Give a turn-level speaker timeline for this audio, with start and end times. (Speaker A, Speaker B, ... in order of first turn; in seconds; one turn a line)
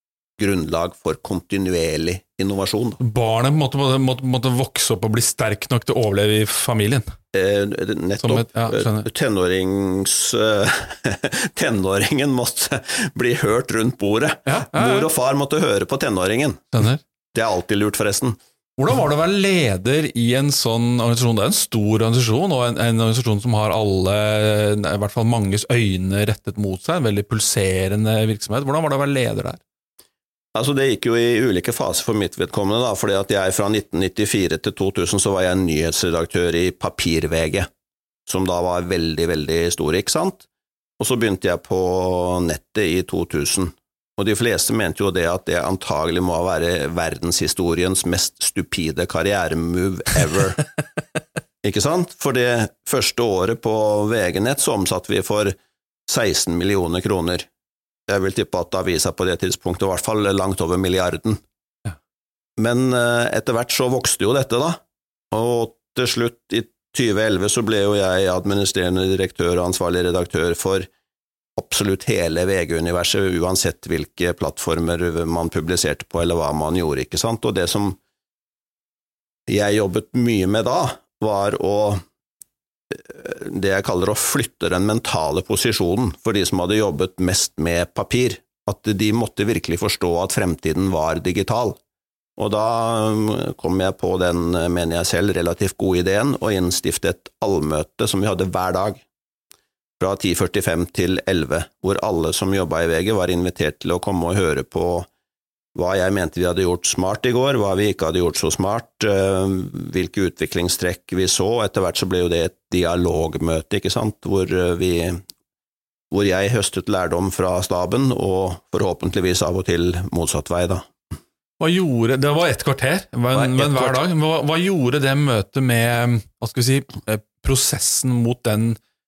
Speaker A: 0.4-3.0
Speaker B: 3.0-7.1
Speaker A: 7.3-16.7
Speaker B: 8.2-9.1
Speaker B: 14.5-15.1
Speaker B: 16.7-17.0
Speaker A: 17.3-18.4
Speaker B: 18.8-29.6
Speaker A: 30.5-37.7
Speaker A: 38.3-40.5
Speaker A: 41.0-50.6
Speaker A: 51.6-55.5
Speaker A: 56.1-57.5
Speaker A: 58.1-61.4
Speaker A: 62.6-70.9
Speaker A: 71.6-78.0
Speaker A: 79.5-82.0
Speaker A: 82.9-91.8
Speaker A: 92.4-99.0
Speaker A: 100.0-105.1
Speaker A: 105.7-115.2
Speaker A: 116.1-120.9
Speaker B: 121.6-128.8
Speaker A: 123.3-124.0